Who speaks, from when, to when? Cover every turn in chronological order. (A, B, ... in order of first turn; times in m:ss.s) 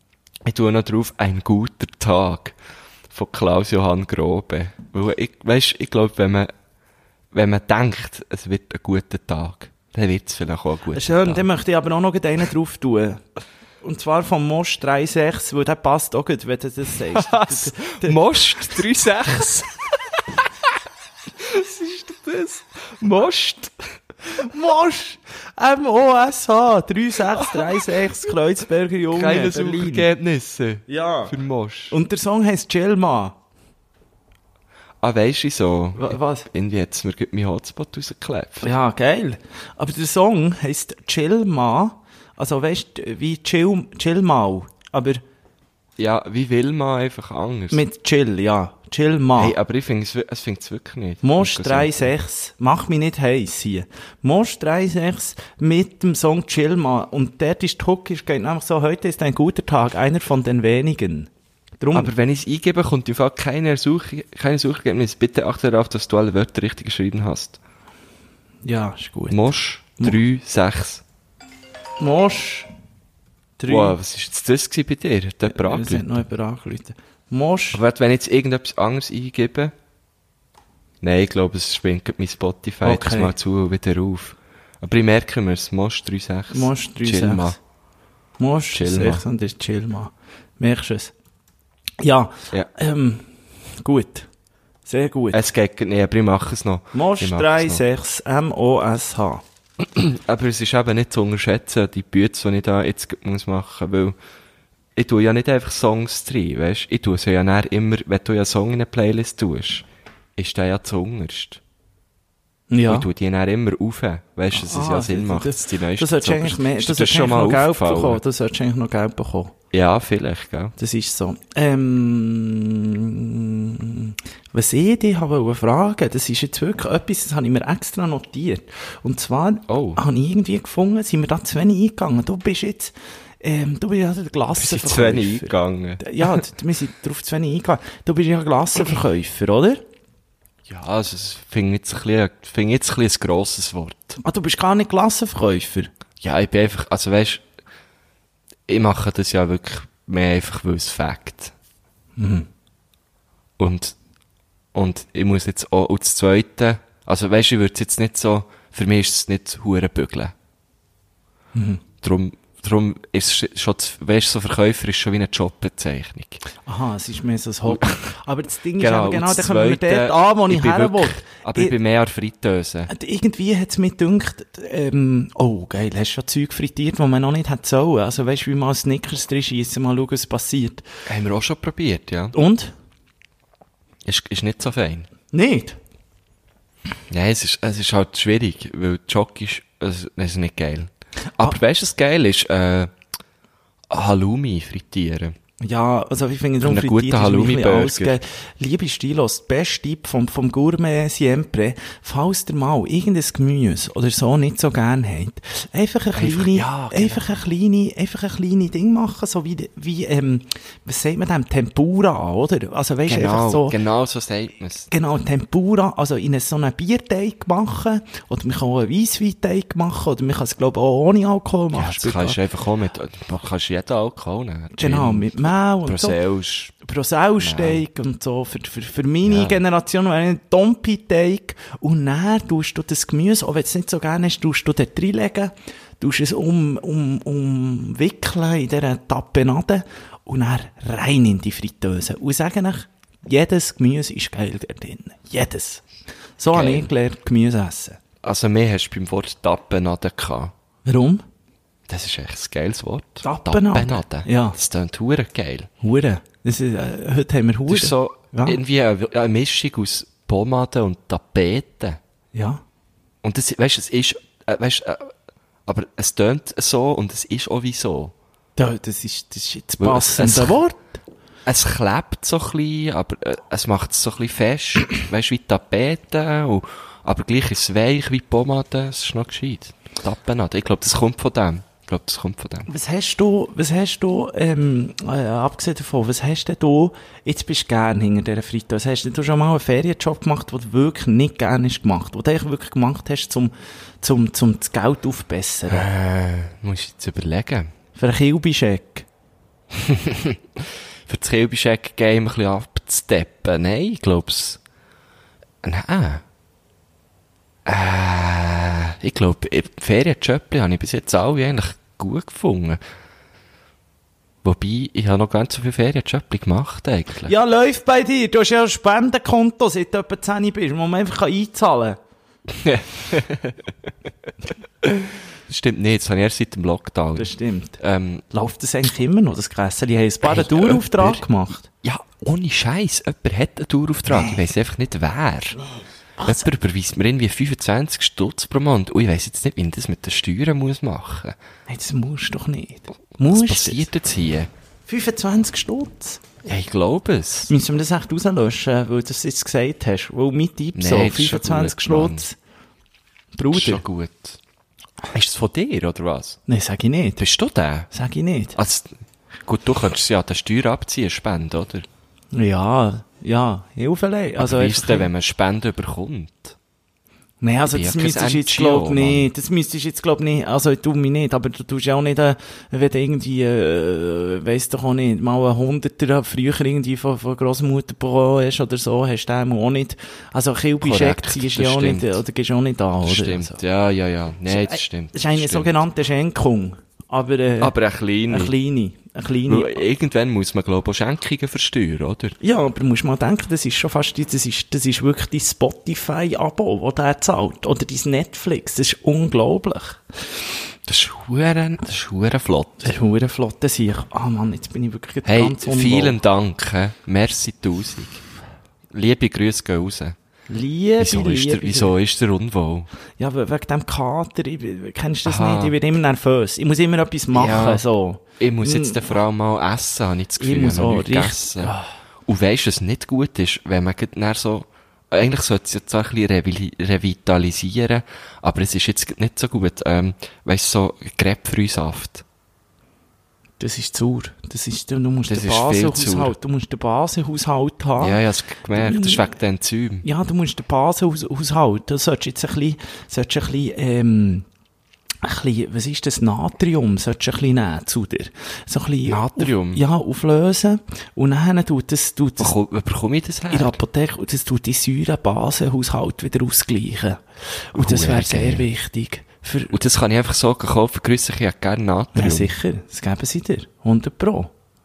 0:00.4-0:02.6 A
0:03.1-0:06.5 A
0:07.3-0:11.5 A
0:10.9-0:13.2 B
0:13.8-0:18.2 B
0:17.1-0:20.5 A
0:21.4-0:23.8 A
0:24.3-0:30.1 B
0:27.4-0:28.0 A
0:29.1-0:32.0 A
0:30.9-0:31.3 B
0:31.9-0:33.4 B
0:35.0-0:38.7 A
0:36.0-0:36.5 B
0:38.6-0:45.2 B
0:46.0-0:47.8 A
0:47.7-0:49.6 B
0:49.4-0:52.1 A
0:51.2-1:01.3 B
1:01.8-1:02.1 B
1:01.9-1:07.6 A
1:08.6-1:09.4 B
1:09.3-1:11.0 A
1:12.0-1:12.7 B
1:13.6-1:14.0 B
1:13.7-1:16.1 A
1:15.5-1:17.8 B
1:17.7-1:19.7 A
1:21.0-1:27.6 A
1:22.8-1:23.4 B
1:26.5-1:27.6 B
1:28.4-1:31.1 B
1:28.7-1:29.2 A
1:32.0-1:34.3 B
1:34.9-1:35.4 B
1:35.3-1:37.8 A
1:36.9-1:39.4 B
1:39.8-1:44.2 A
1:45.0-1:49.8 A
1:50.4-1:51.6 A
1:52.7-1:53.1 B
1:52.9-1:58.2 A
1:54.5-1:59.5 B
1:59.7-2:00.8 A
2:00.8-2:19.8 B
2:09.7-2:10.0 A
2:14.6-2:16.4 A
2:20.7-2:24.2 A
2:24.2-2:25.9 B
2:26.2-2:27.4 A
2:28.7-2:31.5 A
2:32.2-2:32.5 B
2:33.6-2:34.0 A
2:34.7-2:40.3 A
2:41.6-2:41.8 B
2:42.0-2:46.4 A
2:46.7-2:51.8 B
2:47.7-2:48.0 A
2:48.8-2:52.9 A
2:52.9-3:00.9 B
3:01.1-3:02.3 A
3:02.3-3:02.7 B
3:04.0-3:05.1 A
3:05.3-3:05.8 B
3:07.1-3:12.9 A
3:13.9-3:15.4 A
3:15.6-3:33.8 B
3:16.6-3:18.2 A
3:26.1-3:27.3 A
3:33.1-3:34.9 A
3:34.9-3:42.4 B
3:41.7-3:46.8 A
3:44.8-3:46.2 B
3:46.8-4:05.8 B
3:47.4-3:47.8 A
3:49.2-3:49.6 A
4:06.4-4:08.0 B
4:06.5-4:06.9 A
4:08.2-4:10.5 A
4:10.8-4:11.2 B
4:11.9-4:15.7 A
4:13.2-4:14.6 B
4:15.8-4:18.6 B
4:17.7-4:22.0 A
4:22.3-4:22.6 B
4:23.2-4:25.1 A
4:25.7-4:28.1 A
4:28.6-4:31.0 B
4:29.8-4:30.6 A
4:31.5-4:42.7 A
4:42.7-4:55.9 B
4:55.7-4:57.7 A
4:58.0-4:59.1 B
4:59.7-5:04.6 A
5:05.6-5:06.2 A
5:07.7-5:12.8 A
5:14.4-5:17.3 A
5:17.3-5:22.0 B
5:22.5-5:23.7 A
5:24.8-5:28.3 A
5:27.2-5:27.8 B
5:28.3-5:31.7 B
5:30.2-5:31.2 A
5:31.8-5:35.6 A
5:34.1-5:34.4 B
5:35.6-5:36.5 B
5:36.2-5:41.4 A
5:41.7-5:43.9 B
5:43.3-5:44.5 A
5:44.9-5:46.2 B
5:46.4-5:47.5 A
5:47.5-5:52.4 B
5:50.8-5:52.3 A
5:53.4-5:53.8 B
5:53.5-5:54.4 A
5:55.1-5:56.4 A
5:56.5-5:57.2 B
5:57.2-5:57.9 A
5:57.9-5:58.6 B
5:58.6-5:59.0 A
5:59.5-6:01.9 A
6:02.3-6:05.1 B
6:04.4-6:06.6 A
6:07.4-6:23.6 B
6:07.7-6:09.3 A
6:20.8-6:22.2 A
6:23.0-6:25.7 A
6:24.5-6:27.8 B
6:27.6-6:28.5 A
6:28.3-6:29.8 B
6:29.5-6:32.4 A
6:32.4-6:40.0 B
6:40.9-6:42.9 A
6:42.8-6:46.2 B
6:45.2-6:48.2 A
6:48.9-6:50.2 A
6:50.5-6:52.0 B
6:51.0-6:52.9 A
6:53.2-6:59.2 B
6:55.2-6:55.8 A
6:57.3-6:57.8 A
6:58.4-7:01.7 A
7:00.4-7:01.9 B
7:02.3-7:12.2 A
7:13.6-7:18.2 B
7:15.3-7:16.3 A
7:18.0-7:20.1 A
7:18.7-7:19.3 B
7:20.0-7:24.4 B
7:25.2-7:32.6 B
7:29.1-7:29.8 A
7:32.4-7:33.8 A
7:33.5-7:39.7 B
7:37.7-7:38.6 A
7:39.7-7:42.5 A
7:42.1-7:44.5 B